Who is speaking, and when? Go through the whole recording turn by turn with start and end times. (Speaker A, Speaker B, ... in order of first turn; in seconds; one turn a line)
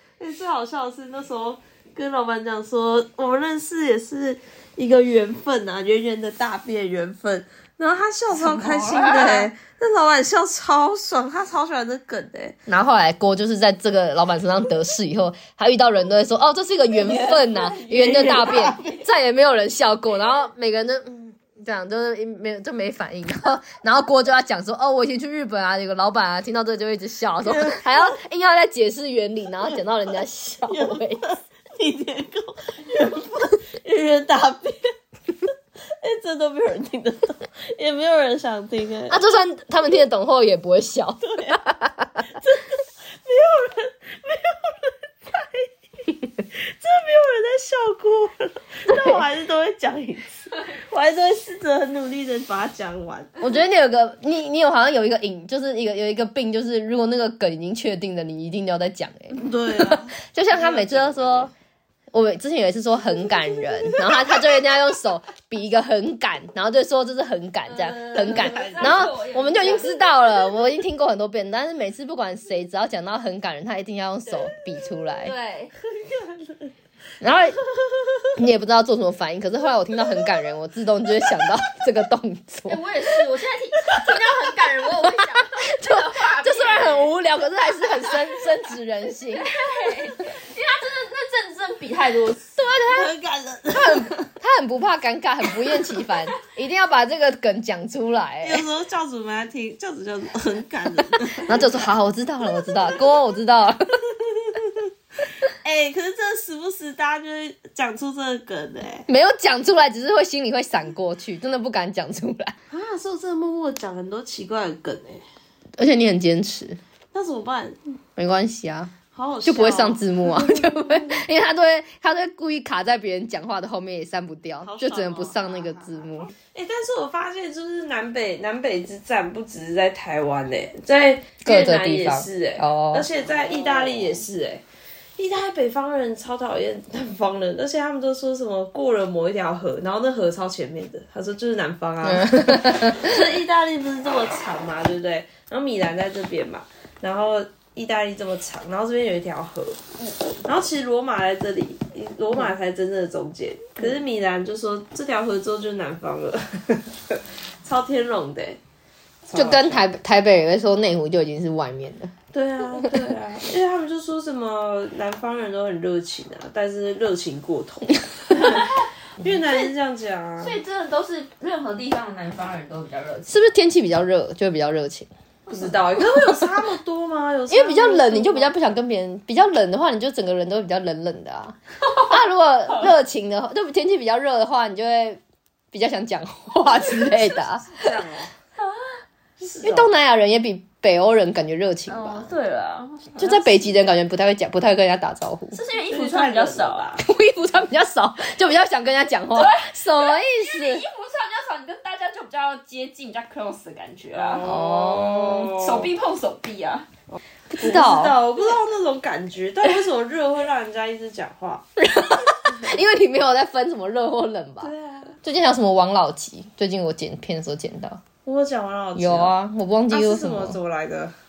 Speaker A: 0.2-12.6
Speaker B: 8.4-9.5
Speaker C: 12.7-31.3
Speaker A: 17.0-19.0
Speaker A: 27.4-28.1
Speaker A: 30.7-34.9
Speaker A: 35.5-39.2
Speaker C: 39.1-42.2
Speaker A: 41.2-41.6
Speaker A: 42.3-45.7
Speaker A: 46.5-53.4
Speaker C: 48.9-49.2
Speaker C: 53.4-61.5
Speaker A: 59.3-61.5
Speaker C: 62.1-75.3
Speaker A: 64.1-64.3
Speaker B: 67.7-70.2
Speaker A: 68.3-69.1
Speaker B: 75.2-75.7
Speaker A: 75.9-76.7
Speaker C: 77.2-77.6
Speaker C: 78.3-82.8
Speaker B: 82.7-87.2
Speaker C: 85.6-89.7
Speaker B: 89.4-92.8
Speaker A: 92.8-94.2
Speaker C: 93.7-98.7
Speaker A: 98.4-101.9
Speaker C: 101.4-104.5
Speaker A: 105.5-109.1
Speaker C: 109.1-112.6
Speaker A: 112.7-115.2
Speaker C: 115.8-116.8
Speaker A: 117.1-117.8
Speaker C: 118.2-118.9
Speaker A: 119.1-120.8
Speaker C: 119.5-126.3
Speaker A: 124.6-134.6
Speaker C: 131.4-133.1
Speaker A: 135.2-149.8
Speaker C: 142.0-143.2
Speaker A: 150.4-158.6
Speaker A: 159.3-159.8
Speaker C: 159.3-162.1
Speaker A: 162.3-170.6
Speaker B: 168.3-168.9
Speaker B: 169.4-169.7
Speaker B: 170.4-173.4
Speaker C: 173.3-175.1
Speaker A: 175.5-178.5
Speaker C: 177.5-185.2
Speaker C: 185.7-187.9
Speaker A: 187.7-188.3
Speaker A: 189.4-189.9
Speaker C: 189.6-192.3
Speaker B: 191.9-193.7
Speaker C: 193.2-195.6
Speaker B: 195.5-196.9
Speaker A: 195.9-197.0
Speaker C: 197.0-200.8
Speaker B: 199.3-204.4
Speaker A: 204.1-205.9
Speaker C: 204.4-205.6
Speaker B: 205.0-206.9
Speaker A: 207.1-211.7
Speaker C: 207.5-208.2
Speaker C: 211.8-218.0
Speaker A: 214.6-215.2
Speaker A: 218.2-219.4
Speaker C: 219.0-220.6
Speaker A: 219.9-221.1